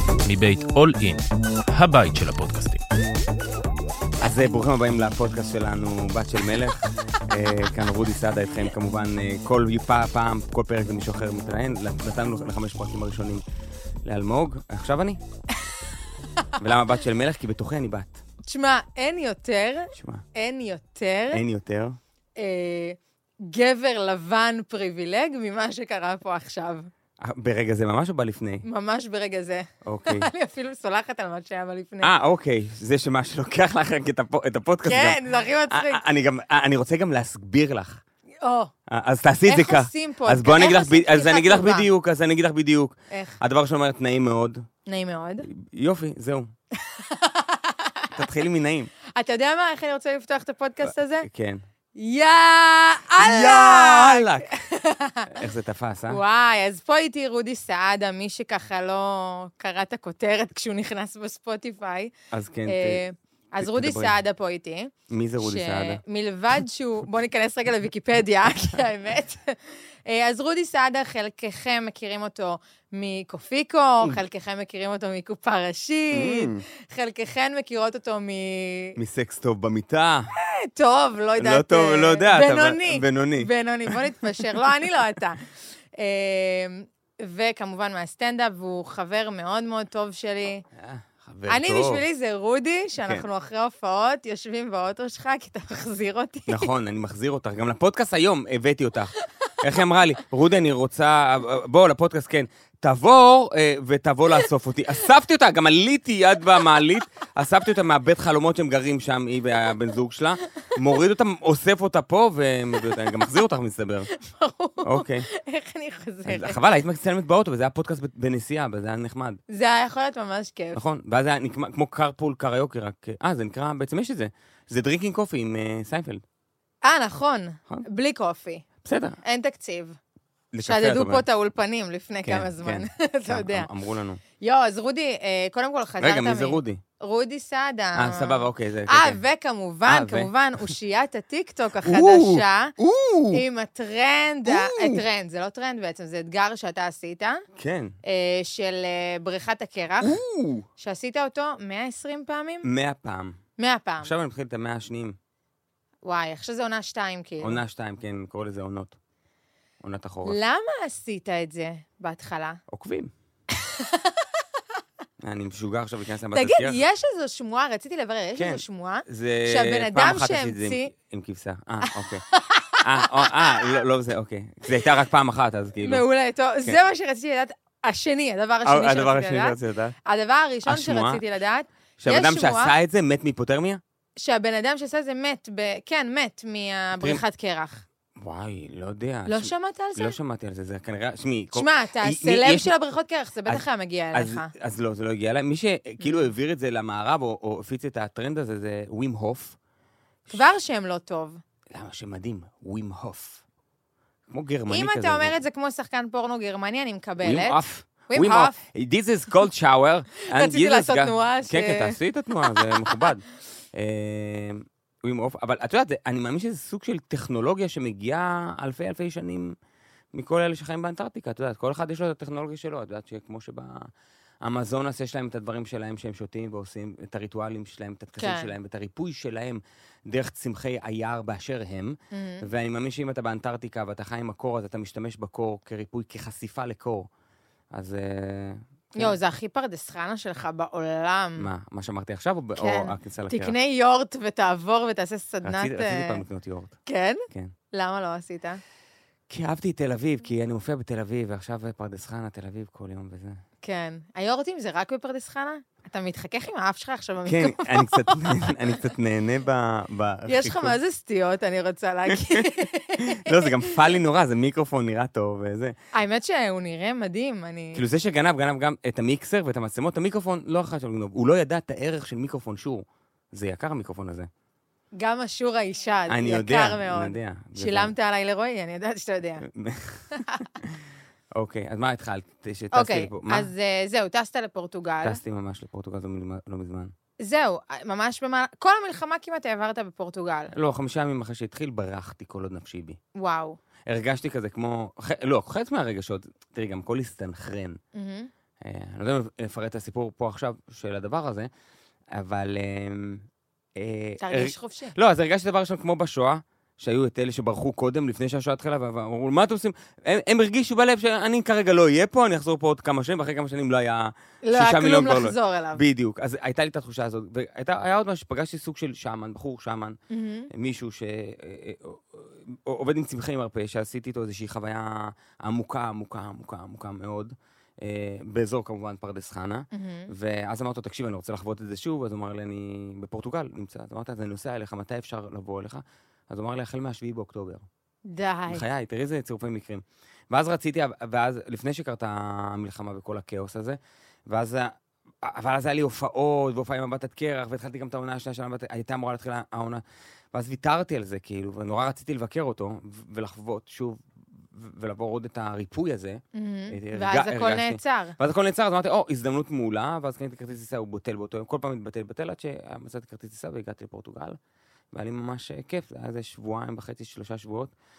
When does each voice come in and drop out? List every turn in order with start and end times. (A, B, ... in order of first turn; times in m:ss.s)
0:00.2-0:02.8 A
0:04.2-0:13.4 B
0:14.0-0:15.2 B
0:16.6-0:18.2 B
0:18.4-0:21.4 C
0:19.9-0:20.2 B
0:21.3-0:22.0 B
0:22.4-0:26.9 C
0:27.2-0:28.6 B
0:28.6-0:32.1 C
0:29.8-0:30.3 B
0:32.0-0:38.0 B
0:34.8-0:36.0 C
0:38.4-0:38.7 C
0:38.9-0:44.6 B
0:39.4-0:41.9 C
0:43.1-0:43.4 C
0:44.9-0:45.5 C
0:45.4-0:46.5 B
0:46.8-0:48.2 C
0:48.2-0:48.9 B
0:49.1-0:51.3 C
0:50.8-0:51.6 B
0:51.9-0:55.3 C
0:53.2-0:54.5 B
0:55.3-0:56.2 B
0:56.1-1:02.1 C
1:02.3-1:03.0 B
1:02.7-1:19.0 C
1:03.6-1:04.2 B
1:05.1-1:06.0 B
1:16.1-1:16.6 B
1:19.0-1:20.3 B
1:20.3-1:30.6 C
1:21.4-1:24.0 B
1:30.8-1:32.0 B
1:31.5-1:36.7 C
1:36.5-1:54.1 B
1:52.8-1:53.2 C
1:54.1-1:56.6 C
1:54.8-1:55.3 B
1:56.3-1:59.4 B
1:59.5-2:00.8 C
2:00.7-2:06.2 B
2:06.8-2:08.6 C
2:08.8-2:09.2 B
2:09.2-2:10.0 C
2:10.5-2:11.2 B
2:10.6-2:13.7 C
2:12.2-2:14.2 B
2:14.4-2:22.7 C
2:16.0-2:16.8 B
2:18.0-2:19.2 B
2:19.8-2:20.7 B
2:21.8-2:23.4 B
2:23.3-2:27.4 C
2:24.4-2:25.0 B
2:27.6-2:27.9 B
2:28.0-2:30.2 C
2:30.0-2:30.6 B
2:30.8-2:32.7 C
2:32.6-2:33.4 B
2:33.6-2:34.1 C
2:34.0-2:35.2 B
2:36.0-2:37.6 C
2:37.4-2:39.0 B
2:39.8-2:40.4 B
2:40.2-2:42.6 C
2:42.7-2:43.1 B
2:43.6-2:44.3 C
2:45.2-2:46.8 B
2:46.3-2:50.9 C
2:48.4-2:52.2 B
2:51.8-2:53.8 C
2:52.8-2:56.0 B
2:55.8-3:02.7 C
2:58.6-3:00.0 B
3:00.6-3:01.2 B
3:02.0-3:03.8 B
3:04.2-3:07.8 C
3:08.2-3:12.7 B
3:09.3-3:10.2 C
3:11.5-3:14.5 C
3:13.4-3:19.6 B
3:16.0-3:16.2 C
3:20.3-3:21.4 C
3:21.7-3:23.4 B
3:24.3-3:25.4 B
3:24.7-3:28.6 C
3:27.2-3:39.6 B
3:30.3-3:33.0 C
3:40.1-3:43.9 B
3:44.4-3:57.1 B
3:48.2-3:48.5 C
3:52.1-3:52.4 C
3:57.7-3:59.2 B
3:59.0-4:01.5 C
4:01.4-4:03.5 B
4:02.6-4:06.2 C
4:05.4-4:06.8 B
4:06.8-4:08.6 C
4:09.3-4:13.4 B
4:13.6-4:18.9 C
4:17.2-4:20.7 B
4:20.3-4:23.8 C
4:22.1-4:25.7 B
4:25.9-4:27.8 C
4:27.7-4:34.3 B
4:35.0-4:39.4 C
4:36.1-4:37.9 B
4:39.4-4:40.8 B
4:40.1-4:40.5 C
4:41.3-4:43.5 B
4:42.7-4:45.2 C
4:45.0-4:46.9 B
4:47.2-4:50.5 C
4:50.5-4:53.0 B
4:53.2-4:53.6 C
4:53.8-4:57.8 B
4:57.9-4:58.3 C
4:58.6-5:01.5 B
5:02.1-5:20.0 B
5:04.2-5:04.9 C
5:14.4-5:15.8 C
5:20.1-5:20.5 C
5:20.5-5:37.7 B
5:29.7-5:30.1 C
5:38.1-5:38.6 C
5:38.5-6:04.4 B
5:56.3-5:58.2 C
6:04.9-6:07.7 B